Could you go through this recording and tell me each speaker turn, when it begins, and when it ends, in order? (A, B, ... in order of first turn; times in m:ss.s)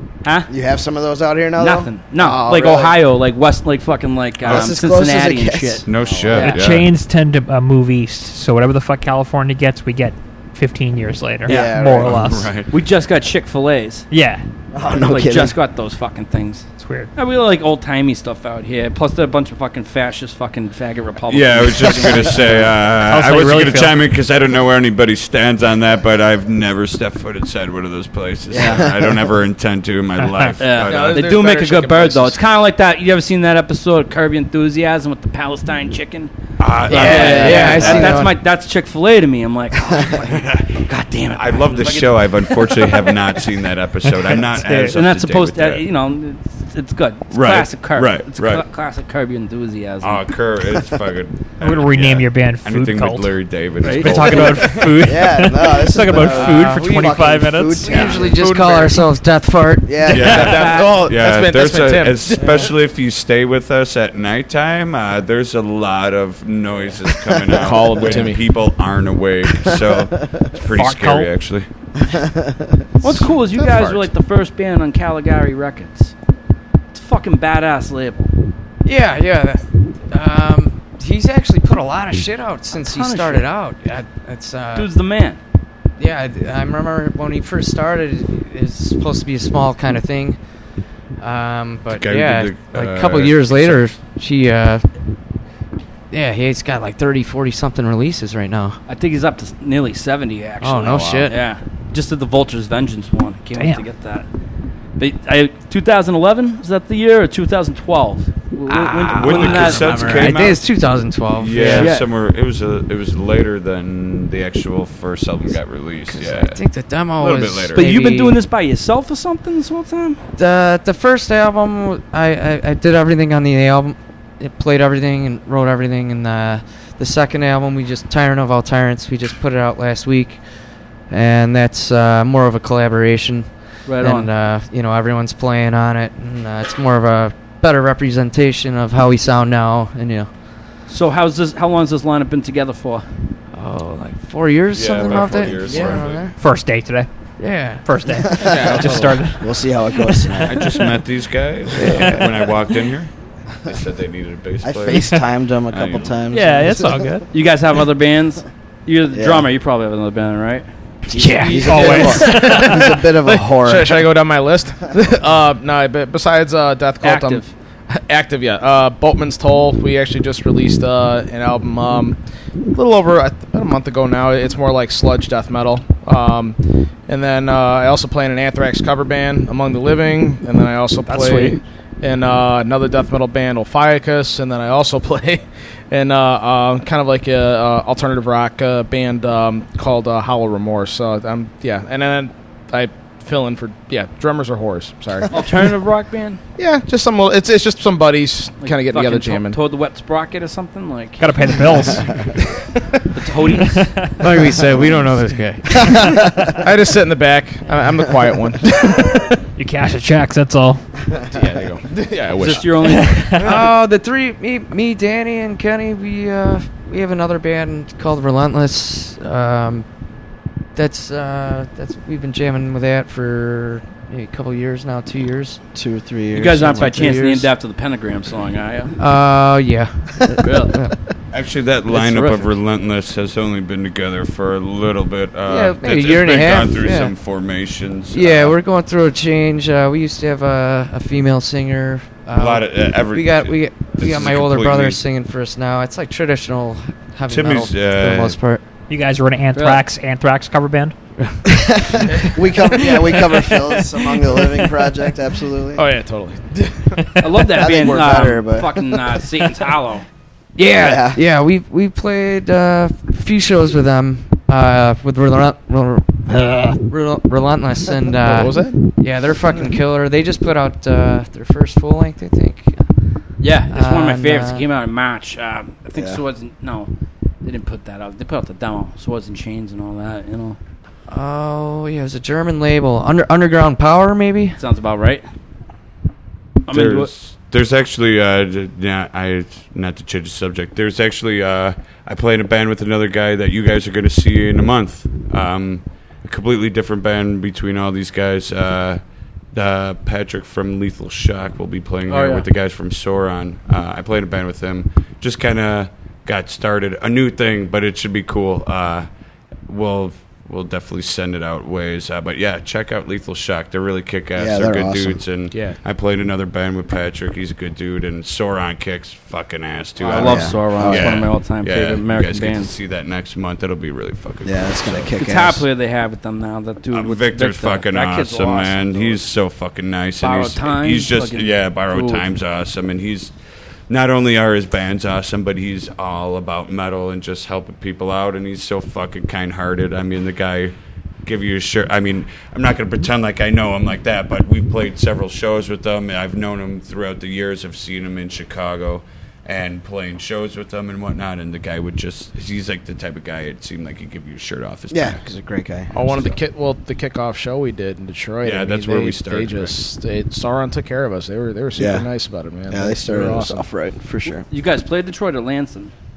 0:00.2-0:00.5 A
0:00.5-0:03.0 B
0:01.6-0:06.6 A
0:04.4-0:06.4 B
0:04.4-0:04.7 C
0:05.8-0:06.9 C
0:06.4-0:12.5 D
0:11.4-0:12.4 B
0:12.0-0:12.7 C
0:12.7-0:14.1 A
0:14.1-0:14.4 D
0:14.7-0:15.6 B
0:14.9-0:22.7 A
0:16.8-0:17.1 D
0:21.3-0:31.3 C
0:23.0-0:24.0 D
0:28.5-0:29.2 B
0:30.6-0:36.3 A
0:30.8-0:32.4 E
0:36.6-0:38.2 C
0:36.8-0:43.4 A
0:36.9-0:38.4 F
0:37.0-0:38.1 B
0:40.1-0:40.8 C
0:41.3-0:45.8 C
0:44.5-0:45.0 D
0:44.8-0:50.2 A
0:47.3-0:48.6 C
0:50.0-0:55.1 C
0:51.6-0:58.1 D
0:53.8-0:54.4 A
0:55.0-0:58.4 B
0:56.2-0:57.0 F
0:57.8-1:00.2 F
0:58.2-0:59.0 E
0:59.8-1:00.6 B
1:00.1-1:11.7 C
1:00.1-1:02.5 E
1:00.3-1:00.9 A
1:02.3-1:02.7 F
1:07.5-1:08.4 E
1:10.6-1:11.3 D
1:12.0-1:12.8 B
1:13.0-1:16.1 A
1:13.1-1:14.0 E
1:16.9-1:18.3 A
1:18.8-1:24.9 F
1:22.7-1:23.5 A
1:24.7-1:25.4 A
1:26.0-1:30.4 F
1:31.2-1:34.8 F
1:31.9-1:33.9 C
1:36.1-1:38.8 F
1:38.9-1:44.3 A
1:40.6-1:41.4 F
1:43.6-1:43.8 D
1:45.0-1:50.4 A
1:48.6-1:51.9 F
1:49.1-1:50.7 C
1:51.3-1:56.6 C
1:51.6-1:52.1 A
1:56.1-1:58.4 F
1:57.2-1:57.9 C
1:57.7-2:00.2 A
2:00.4-2:10.4 F
2:11.1-2:20.3 F
2:13.8-2:14.3 A
2:20.9-2:23.0 A
2:23.5-2:26.3 F
2:24.7-2:26.3 C
2:25.7-2:26.0 E
2:26.4-2:30.3 D
2:27.4-2:28.4 F
2:28.4-2:29.2 E
2:29.4-2:30.8 B
2:30.4-2:33.1 C
2:31.8-2:32.3 F
2:33.6-2:35.1 C
2:34.6-2:37.2 B
2:35.7-2:36.2 C
2:36.3-2:37.2 D
2:37.3-2:42.3 A
2:39.1-2:39.5 B
2:41.1-2:44.1 B
2:41.5-2:43.0 D
2:41.7-3:15.7 E
2:47.0-2:47.5 A
3:01.1-3:01.6 A
3:15.3-3:16.4 A
3:16.6-3:19.6 E
3:18.6-3:21.6 A
3:21.2-3:22.3 D
3:23.1-3:23.9 A
3:23.6-3:24.5 D
3:24.2-3:25.9 F
3:24.8-3:25.0 E
3:25.8-3:29.2 E
3:29.5-3:30.8 D
3:31.3-3:32.9 E
3:32.4-3:33.4 A
3:33.0-3:33.5 D
3:33.4-3:39.9 F
3:40.7-3:45.6 F
3:45.7-3:47.1 B
3:46.3-3:49.0 A
3:46.7-3:47.5 F
3:49.0-3:50.9 F
3:50.4-3:50.8 A
3:51.3-3:58.6 C
3:51.9-3:52.5 A
3:55.4-3:57.1 F
3:58.1-4:08.6 F
4:02.3-4:05.0 C
4:07.3-4:08.4 C
4:08.9-4:10.9 D
4:09.5-4:09.8 A
4:11.3-4:12.2 F
4:11.7-4:15.8 B
4:15.7-4:17.1 E
4:17.2-4:20.1 A
4:17.3-4:19.2 B
4:20.6-4:21.2 B
4:21.1-4:34.6 F
4:28.2-4:28.9 E
4:33.4-4:36.9 A
4:35.9-4:36.2 B
4:37.4-4:40.6 A
4:41.1-4:44.6 F
4:44.6-4:45.2 A
4:46.7-4:47.1 A
4:46.7-4:59.0 C
4:59.5-5:09.1 C
5:02.1-5:02.5 A
5:09.7-5:25.1 C
5:14.4-5:15.2 B
5:20.0-5:21.2 B
5:20.1-5:22.7 A
5:24.4-5:25.7 B
5:25.2-5:29.2 A
5:26.9-5:33.3 C
5:30.2-5:32.2 A
5:33.9-5:55.2 C
5:54.9-5:56.3 B
5:55.9-6:03.7 E
5:58.4-5:59.7 C
6:01.8-6:02.1 B
6:02.7-6:04.4 B
6:04.4-6:05.9 A